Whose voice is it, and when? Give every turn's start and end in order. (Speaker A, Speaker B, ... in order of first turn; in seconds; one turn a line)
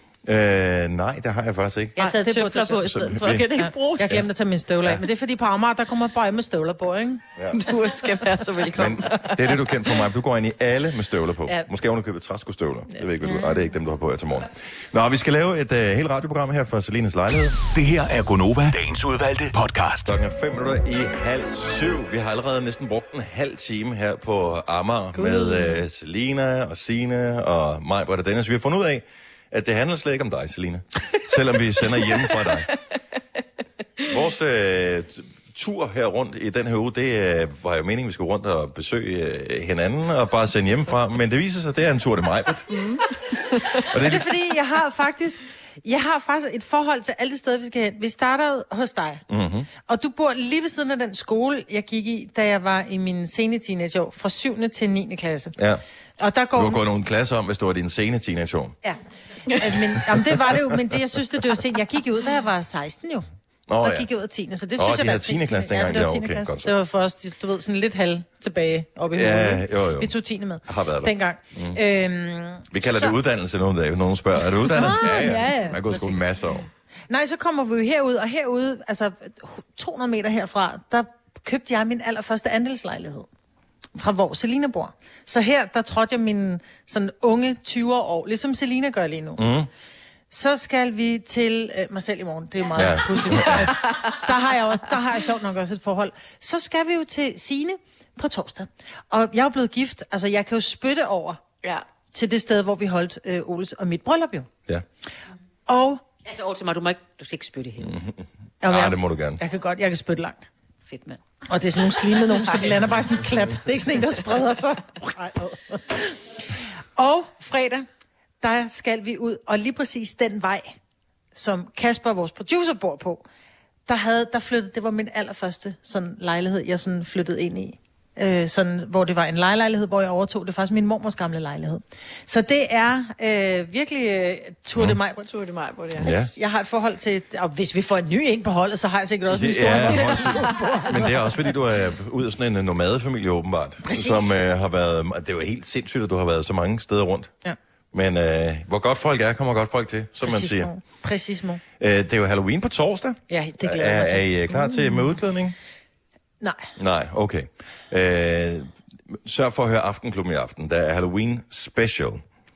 Speaker A: 0.2-2.0
Speaker B: 2.0-4.2
Speaker C: 2.0-2.8
Speaker A: 2.8-3.5
Speaker C: 3.5-7.2
Speaker A: 7.4-7.6
Speaker D: 7.5-9.6
Speaker A: 8.7-17.6
Speaker E: 17.7-20.2
Speaker A: 20.1-32.7
Speaker D: 25.1-25.8
Speaker D: 31.9-32.6
Speaker A: 34.1-42.7
Speaker D: 42.7-43.9
Speaker A: 43.9-44.3
Speaker C: 43.9-49.2
Speaker A: 49.3-49.7
Speaker C: 49.8-55.5
Speaker A: 55.6-55.8
Speaker C: 56.2-56.8
Speaker A: 56.6-58.8
Speaker C: 59.5-63.2
Speaker A: 60.1-60.4
Speaker A: 63.7-64.1
Speaker C: 63.8-73.2
Speaker A: 64.8-66.7
Speaker A: 69.1-70.1
Speaker A: 70.7-71.8
Speaker A: 72.7-76.7
Speaker C: 74.6-76.2
Speaker C: 77.1-83.3
Speaker C: 84.0-89.4
Speaker A: 89.4-89.7
Speaker C: 90.3-101.4
Speaker A: 92.8-93.7
Speaker D: 93.3-94.2
Speaker C: 102.1-104.5
Speaker C: 105.7-106.0
Speaker B: 106.2-108.0
Speaker A: 107.8-109.4
Speaker C: 108.6-110.5
Speaker B: 110.9-111.2
Speaker C: 111.5-116.2
Speaker C: 117.0-117.9
Speaker C: 118.4-120.8
Speaker C: 121.3-123.2
Speaker C: 123.9-135.2
Speaker D: 135.2-136.1
Speaker A: 136.0-136.3
Speaker C: 136.0-141.5
Speaker A: 139.3-147.3
Speaker D: 139.8-140.6
Speaker C: 143.8-144.4
Speaker A: 147.9-150.7
Speaker C: 150.2-151.6
Speaker A: 151.8-155.6
Speaker C: 153.3-155.1
Speaker C: 156.4-156.7
Speaker A: 156.8-162.2